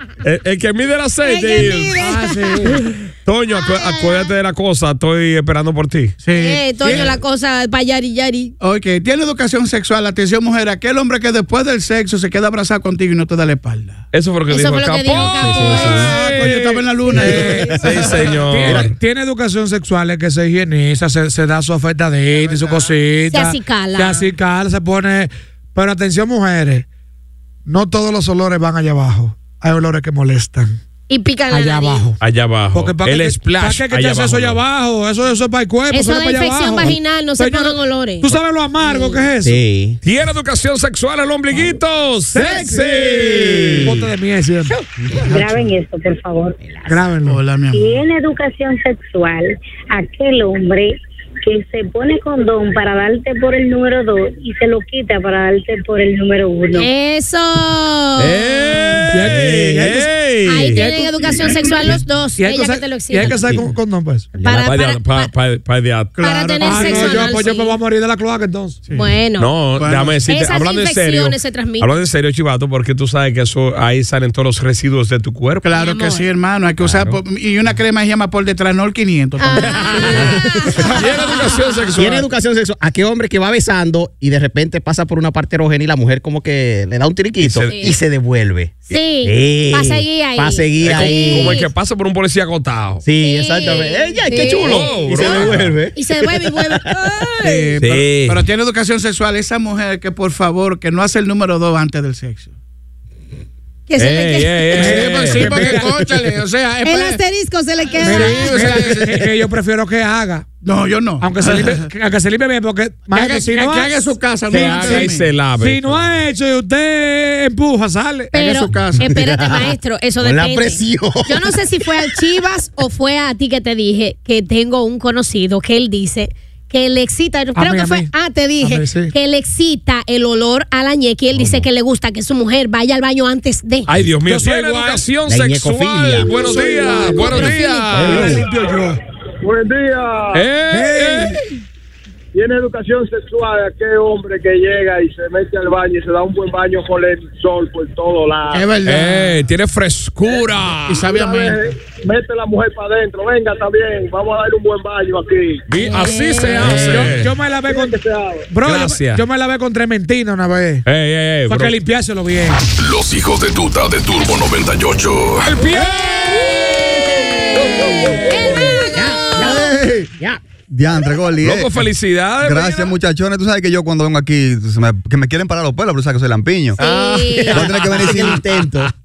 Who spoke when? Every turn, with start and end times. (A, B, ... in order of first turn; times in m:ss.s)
0:00.2-0:02.0 A
0:01.2-0:02.8 B
0:02.0-0:02.7 C
0:03.2-0:06.2 A
0:03.5-0:04.3 B
0:06.2-0:07.2 D
0:06.3-0:08.5 B
0:08.6-0:14.0 D
0:14.1-0:18.9 A
0:14.5-0:16.2 B
0:15.3-0:16.5 C
0:15.9-0:18.1 D
0:17.1-0:26.9 C
0:22.3-0:23.0 D
0:23.3-0:24.3 B
0:27.7-0:30.8 C
0:31.1-0:32.1 B
0:31.5-0:32.2 C
0:32.2-0:34.6 A
0:32.7-0:39.6 C
0:35.9-0:39.3 B
0:39.4-0:40.0 E
0:40.0-0:43.9 A
0:42.3-0:43.2 C
0:42.5-0:44.1 E
0:43.8-0:44.8 C
0:45.3-0:46.6 F
0:45.3-0:45.7 D
0:46.6-0:47.2 E
0:46.9-0:47.4 C
0:47.2-0:48.0 D
0:47.7-0:56.9 F
0:56.8-0:59.0 B
0:58.2-1:00.9 A
0:59.1-1:00.1 C
1:00.5-1:03.6 B
1:00.8-1:04.3 C
1:03.3-1:03.6 E
1:04.4-1:04.7 E
1:04.4-1:05.3 B
1:04.5-1:06.2 A
1:06.2-1:07.4 D
1:06.2-1:07.8 B
1:06.6-1:08.8 C
1:08.9-1:09.2 D
1:08.9-1:09.5 B
1:09.4-1:15.7 A
1:09.8-1:10.2 D
1:10.3-1:11.9 B
1:15.6-1:20.3 D
1:15.7-1:16.3 B
1:16.8-1:17.2 E
1:19.4-1:21.7 B
1:19.7-1:20.4 A
1:20.9-1:22.3 A
1:22.0-1:31.6 E
1:27.4-1:27.9 A
1:27.7-1:28.0 B
1:28.9-1:31.7 B
1:30.8-1:33.0 A
1:33.0-1:36.0 E
1:33.2-1:37.8 B
1:34.4-1:35.8 A
1:37.5-1:38.4 A
1:38.0-1:42.5 D
1:43.9-1:44.9 B
1:44.0-1:45.8 A
1:44.8-1:46.0 C
1:44.8-1:47.2 D
1:46.8-1:48.8 B
1:48.0-1:49.3 D
1:48.0-1:50.5 C
1:50.6-1:51.9 D
1:51.2-1:58.3 C
1:53.1-1:55.3 D
1:54.5-1:56.1 A
1:58.3-2:13.9 B
1:58.3-1:59.1 D
1:59.0-2:01.5 E
2:07.6-2:09.1 C
2:11.3-2:11.7 E
2:13.9-2:18.4 A
2:14.2-2:15.0 C
2:15.3-2:16.3 E
2:16.3-2:19.0 C
2:16.4-2:18.4 B
2:19.4-2:20.4 G
2:20.3-2:21.4 A
2:20.7-2:21.4 C
2:22.3-2:28.7 G
2:28.5-2:29.4 D
2:28.8-2:31.1 A
2:30.9-2:31.6 D
2:31.1-2:35.6 G
2:35.7-2:37.3 A
2:35.8-2:37.0 B
2:36.7-2:38.0 C
2:37.7-2:38.4 G
2:38.5-2:40.8 C
2:38.6-2:39.2 A
2:40.9-2:41.8 A
2:41.5-2:42.6 C
2:42.8-2:45.6 H
2:45.5-2:45.9 C
2:45.8-2:49.7 B
2:48.8-2:50.4 E
2:49.5-2:50.1 I
2:50.7-2:51.9 I
2:51.4-2:52.9 A
2:52.4-2:56.8 I
2:56.8-2:57.7 B
2:56.8-2:58.9 A
2:57.4-2:58.9 E
2:57.5-2:58.4 I